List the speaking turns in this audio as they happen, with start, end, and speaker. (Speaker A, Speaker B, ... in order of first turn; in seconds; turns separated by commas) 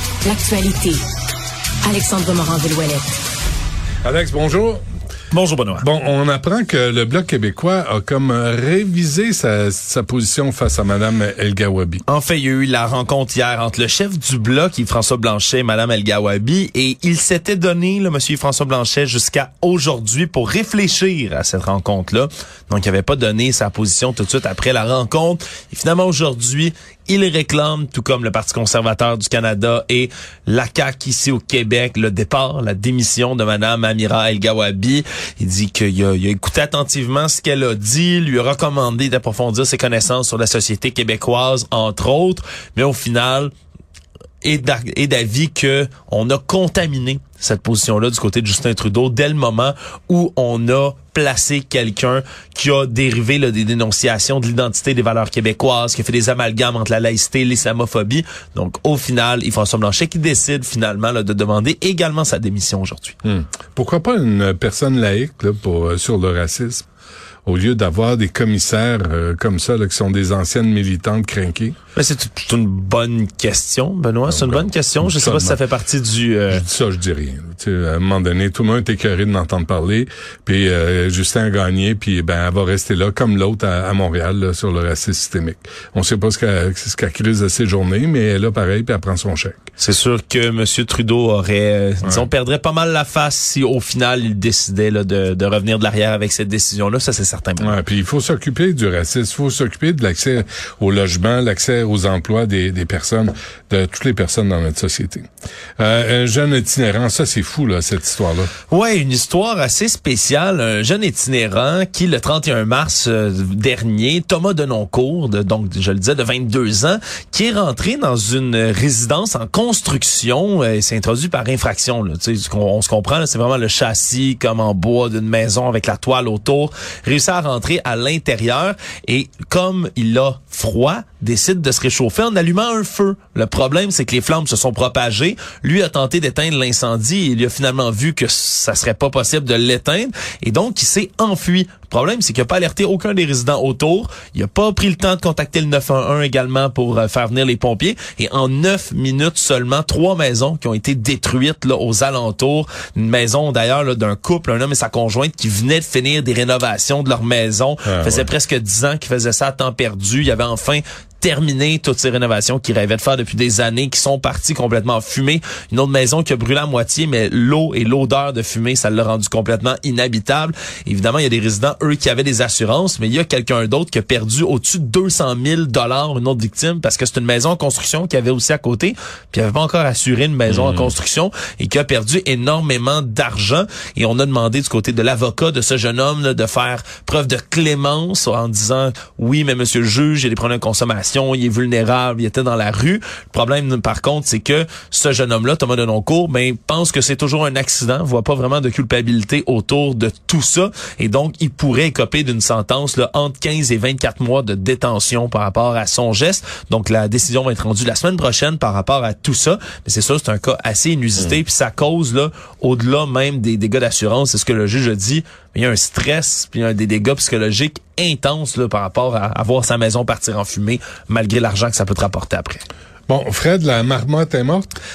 Speaker A: 0.2-1.0, Speaker A: 1.8-3.2, Speaker B: 4.0-4.8, Speaker C: 5.3-5.8, Speaker B: 5.8-12.0, Speaker C: 12.1-43.5, Speaker C: 44.4-63.2, Speaker B: 63.2-66.9, Speaker B: 67.5-71.8, Speaker C: 72.0-76.6, Speaker B: 74.3-75.6, Speaker B: 76.5-89.6, Speaker C: 89.8-97.8, Speaker B: 97.6-105.3, Speaker B: 105.8-108.5, Speaker C: 108.7-222.6, Speaker B: 157.8-158.3, Speaker B: 180.5-180.9, Speaker B: 223.1-224.7